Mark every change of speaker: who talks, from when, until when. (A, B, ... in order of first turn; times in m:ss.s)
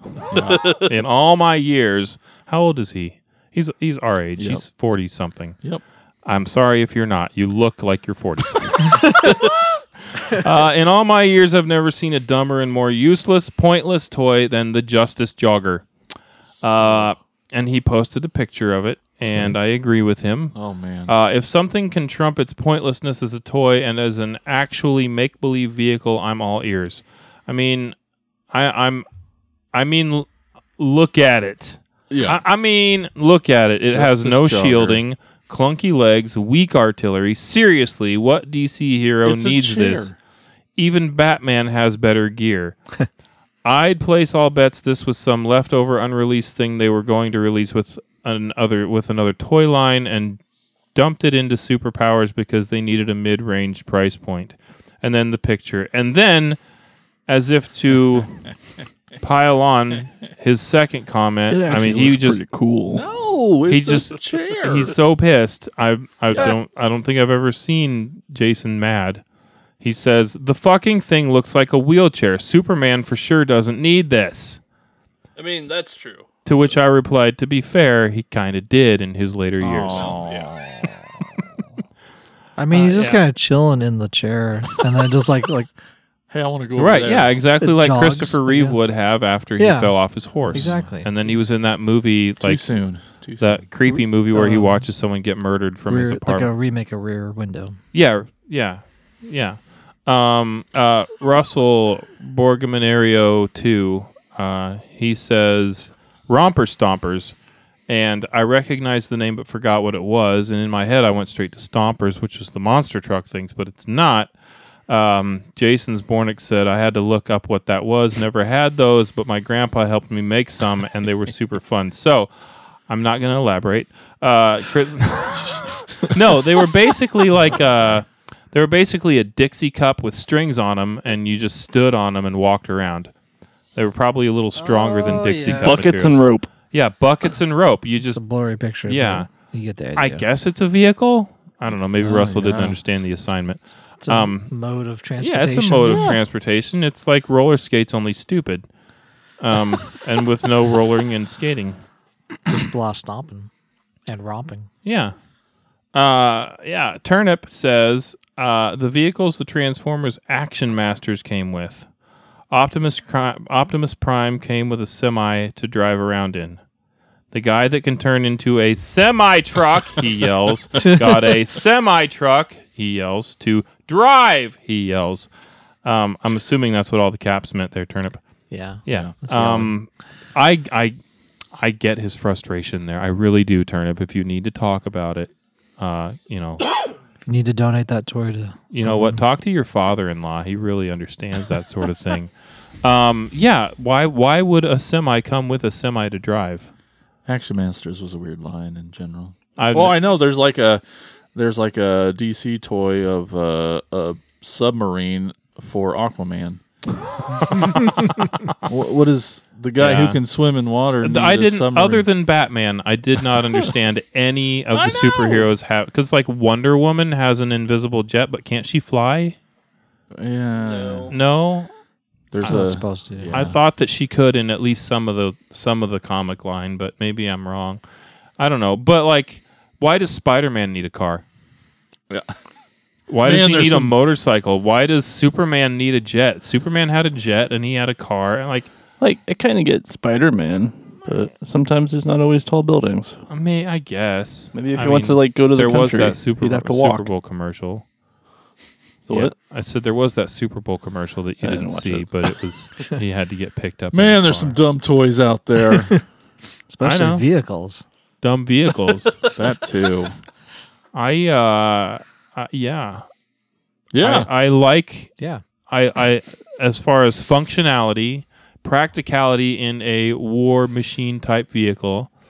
0:00.3-0:00.6 A
0:00.5-0:05.6 B
0:00.5-0:00.8 C
0:04.4-0:04.6 A
0:06.2-0:09.6 B
0:10.1-0:15.9 B
0:16.6-0:17.1 A
0:16.6-0:27.9 B
0:20.5-0:21.1 A
0:28.5-0:29.0 B
0:29.7-0:40.1 B
0:32.1-0:32.4 A
0:33.9-0:35.0 A
0:39.2-0:40.1 A
0:40.8-0:42.8 B
0:43.6-0:50.4 B
0:50.9-0:56.6 B
0:57.3-0:58.5 B
0:59.2-1:02.4 B
1:01.5-1:03.0 C
1:02.9-1:05.0 A
1:03.7-1:09.2 B
1:09.8-1:14.6 B
1:15.4-1:16.7 C
1:16.4-1:20.1 B
1:19.6-1:21.4 A
1:20.0-1:20.5 C
1:22.6-1:25.7 D
1:22.7-1:23.2 B
1:26.3-1:27.3 A
1:26.7-1:32.7 B
1:27.6-1:28.9 D
1:29.6-1:30.0 D
1:30.5-1:31.4 A
1:30.5-1:31.1 D
1:32.4-1:33.7 A
1:33.4-1:36.5 B
1:34.3-1:34.8 D
1:35.8-1:37.8 D
1:37.9-1:47.3 B
1:47.9-1:54.3 B
1:54.9-2:02.3 B
2:02.9-2:13.1 B
2:13.7-2:18.2 B
2:14.6-2:15.8 D
2:15.6-2:16.5 C
2:18.0-2:20.2 D
2:18.8-2:19.3 B
2:20.0-2:24.5 B
2:22.0-2:22.8 D
2:24.0-2:26.2 D
2:25.2-2:28.6 B
2:25.8-2:26.2 A
2:29.4-2:31.8 B
2:32.5-2:33.5 D
2:34.1-2:34.7 D
2:34.8-2:35.1 B
2:35.9-2:41.9 B
2:42.5-2:46.6 B
2:47.3-2:55.3 B
2:55.8-2:58.2 B
2:58.5-2:59.7 D
2:58.8-3:01.0 B
3:01.5-3:06.7 B
3:07.2-3:09.2 D
3:08.7-3:16.7 B
3:17.2-3:26.6 A
3:19.6-3:20.0 B
3:28.6-3:32.1 A
3:29.8-3:30.2 B
3:31.0-3:39.4 B
3:34.7-3:35.5 A
3:40.1-3:41.1 A
3:40.6-3:41.1 C
3:41.1-3:41.7 B
3:42.3-3:43.6 A
3:42.4-3:43.4 D
3:43.3-3:47.8 B
3:48.4-3:51.2 B
3:53.1-3:58.7 B
3:53.2-3:53.9 A
3:59.0-4:03.2 C
4:03.3-4:07.8 B
4:04.5-4:07.1 C
4:09.1-4:09.3 C
4:09.1-4:14.6 B
4:11.4-4:12.4 C
4:13.9-4:16.0 A
4:16.7-4:17.8 D
4:16.8-4:17.2 B
4:18.2-4:19.2 B
4:19.3-4:20.2 A
4:20.9-4:23.0 B
4:23.9-4:24.3 A
4:24.0-4:25.1 B
4:25.7-4:32.1 B